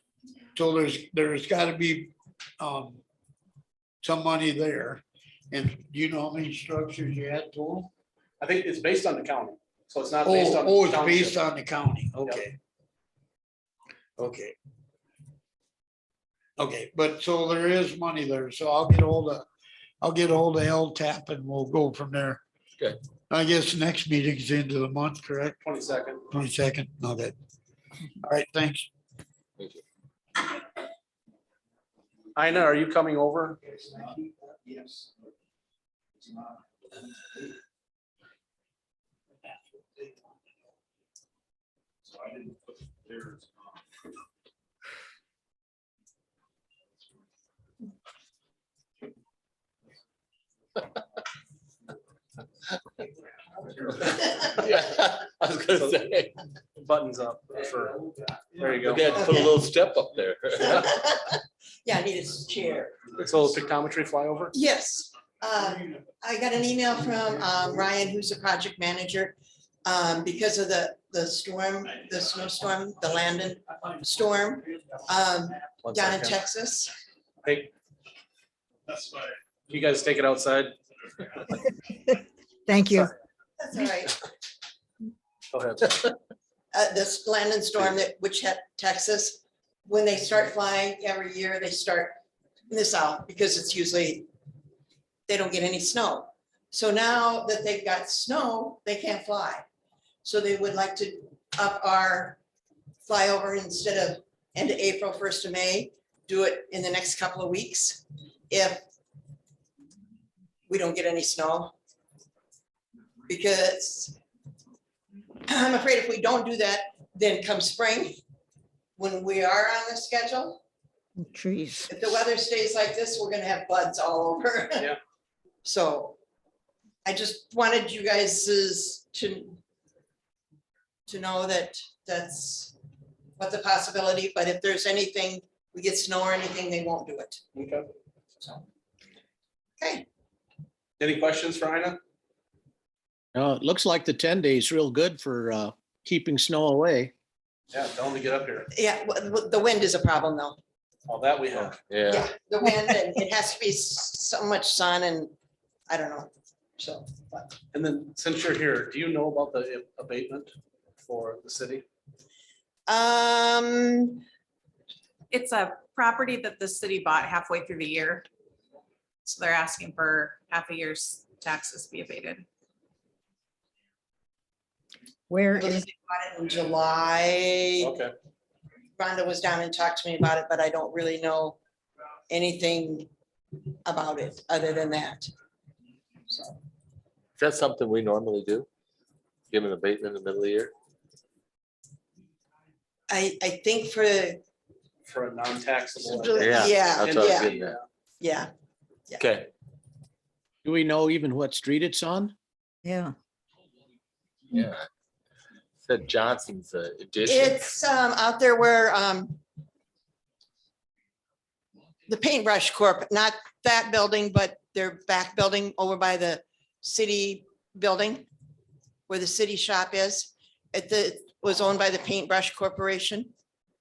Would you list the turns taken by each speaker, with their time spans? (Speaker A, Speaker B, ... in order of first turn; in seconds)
Speaker A: 0.6-3.0, 4.0-7.9, 10.2-12.6, 14.2-14.6, 16.6-19.4, 20.0-22.4, 23.3-25.6, 26.3-27.4, 28.2-28.9
Speaker B: 8.4-11.4, 12.1-12.4, 25.6-26.2, 32.3-33.6, 56.8-58.0, 58.5-59.1, 63.2-64.5, 75.8-76.4, 77.4-77.7, 79.7-80.7, 85.5-86.1, 137.5-137.8, 141.0-142.0, 147.7-148.7, 151.1-151.8, 157.7-161.8, 177.8-178.1, 195.1-197.8
Speaker C: 53.9-56.4, 58.8-60.9, 151.9-152.3, 187.4-188.7, 189.5-190.7, 196.4-197.8, 199.2-199.5, 204.5-204.8, 205.8-207.7
Speaker D: 59.1-59.5, 60.6-63.2, 64.5-76.9, 83.6-84.2, 86.7-92.2, 92.7-94.3, 95.3-99.6, 100.2-102.4, 103.0-108.8, 110.7-111.7, 113.3-114.2, 115.5-118.2, 119.0-120.6, 121.9-124.9, 125.6-126.2, 127.0-129.6, 131.1-132.7, 133.4-137.4, 139.8-140.1, 148.7-150.6, 152.1-155.3, 155.9-157.6, 162.9-164.2, 175.6-177.9, 179.0-181.6, 182.3-183.1, 183.8-185.3, 186.3-186.6, 193.1-194.4, 196.1-197.5, 198.2-198.5, 207.2-209.4, 212.1-218.2, 219.1-223.3
Speaker E: 82.7-83.1, 121.2-121.9, 175.3-175.8, 202.8-203.1
Speaker F: 143.3-147.1, 200.6-202.3
Speaker G: 165.3-168.2, 169.2-172.4